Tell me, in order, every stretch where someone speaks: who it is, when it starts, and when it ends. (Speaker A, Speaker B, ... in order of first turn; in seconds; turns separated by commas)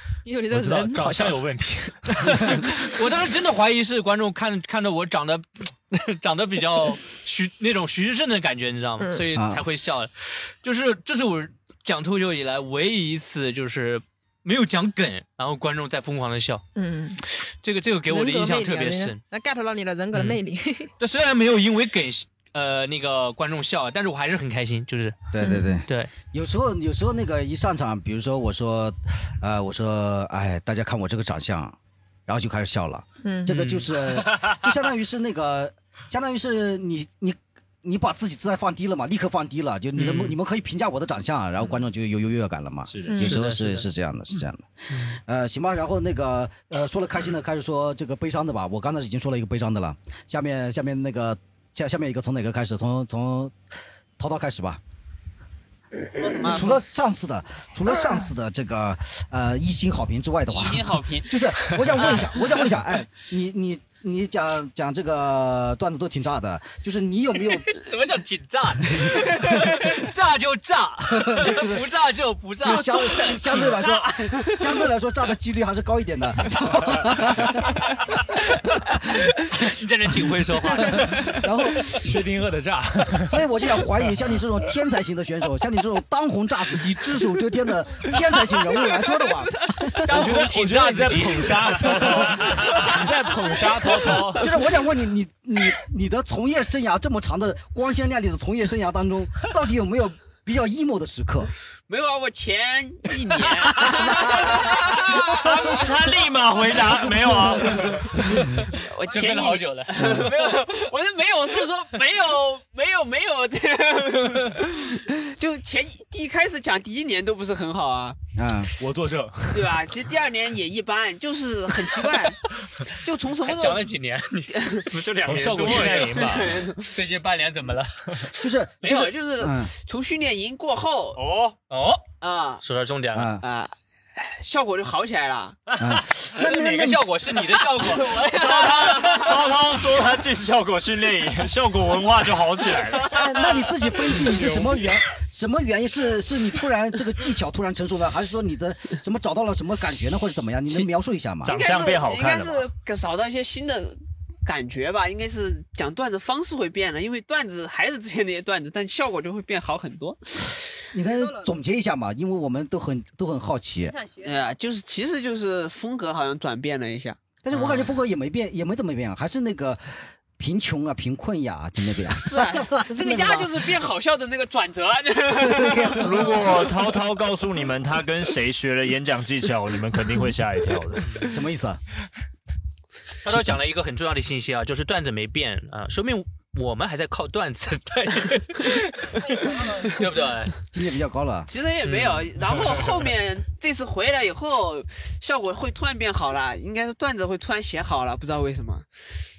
Speaker A: 0.2-1.4, Speaker B: 0.5-2.7, Speaker C: 2.5-16.6, Speaker A: 9.0-9.2, Speaker D: 9.3-9.6, Speaker A: 16.7-17.2, Speaker C: 17.6-19.2, Speaker A: 18.1-20.9, Speaker C: 21.0-25.2, Speaker D: 25.3-53.5, Speaker A: 25.4-25.8, Speaker C: 25.9-26.1, Speaker A: 33.2-33.5, Speaker C: 33.5-33.9, Speaker C: 40.0-40.4, Speaker E: 42.9-43.2, Speaker A: 43.1-43.4, Speaker C: 43.1-43.9, Speaker C: 44.9-45.2, Speaker D: 54.2-54.8, Speaker F: 56.2-56.8, Speaker C: 56.4-56.7, Speaker D: 56.4-67.7, Speaker F: 60.5-61.4, Speaker C: 62.0-62.3, Speaker C: 67.5-73.8, Speaker D: 71.1-71.9, Speaker D: 72.6-77.8, Speaker F: 73.8-74.5, Speaker C: 79.5-81.4, Speaker D: 80.2-82.0, Speaker B: 82.0-83.4, Speaker D: 83.3-90.5, Speaker F: 88.8-89.8, Speaker C: 90.0-92.5, Speaker B: 90.1-94.5, Speaker E: 91.8-92.8, Speaker F: 92.8-93.9, Speaker D: 94.4-101.5, Speaker F: 101.9-105.9, Speaker C: 104.8-105.5, Speaker E: 105.6-108.1, Speaker F: 108.7-118.2, Speaker C: 109.1-109.9, Speaker D: 109.9-110.3, Speaker D: 118.3-118.7, Speaker B: 118.8-119.8, Speaker F: 119.5-123.9, Speaker C: 123.4-124.5, Speaker F: 124.5-124.9, Speaker E: 124.9-126.6, Speaker B: 125.2-126.5, Speaker C: 125.5-126.1, Speaker F: 125.7-126.9, Speaker C: 126.8-128.4, Speaker D: 128.4-129.7, Speaker F: 128.8-131.2, Speaker E: 131.2-131.6, Speaker C: 131.7-132.0, Speaker F: 132.2-132.6, Speaker C: 132.6-133.3, Speaker D: 133.1-133.4, Speaker F: 133.4-135.6, Speaker D: 135.8-137.1, Speaker C: 136.3-138.2, Speaker F: 137.5-139.5, Speaker E: 138.3-143.3, Speaker D: 143.1-151.5, Speaker E: 151.4-152.7, Speaker F: 151.4-160.6, Speaker D: 160.9-163.9, Speaker A: 163.9-164.3, Speaker F: 164.2-167.2, Speaker D: 167.4-173.7, Speaker C: 167.5-167.9, Speaker F: 172.1-176.7, Speaker D: 175.5-176.0, Speaker E: 176.0-181.0, Speaker C: 181.0-181.4, Speaker D: 181.3-181.8, Speaker C: 183.2-190.5, Speaker D: 190.7-191.5, Speaker F: 191.5-198.9, Speaker C: 191.8-192.4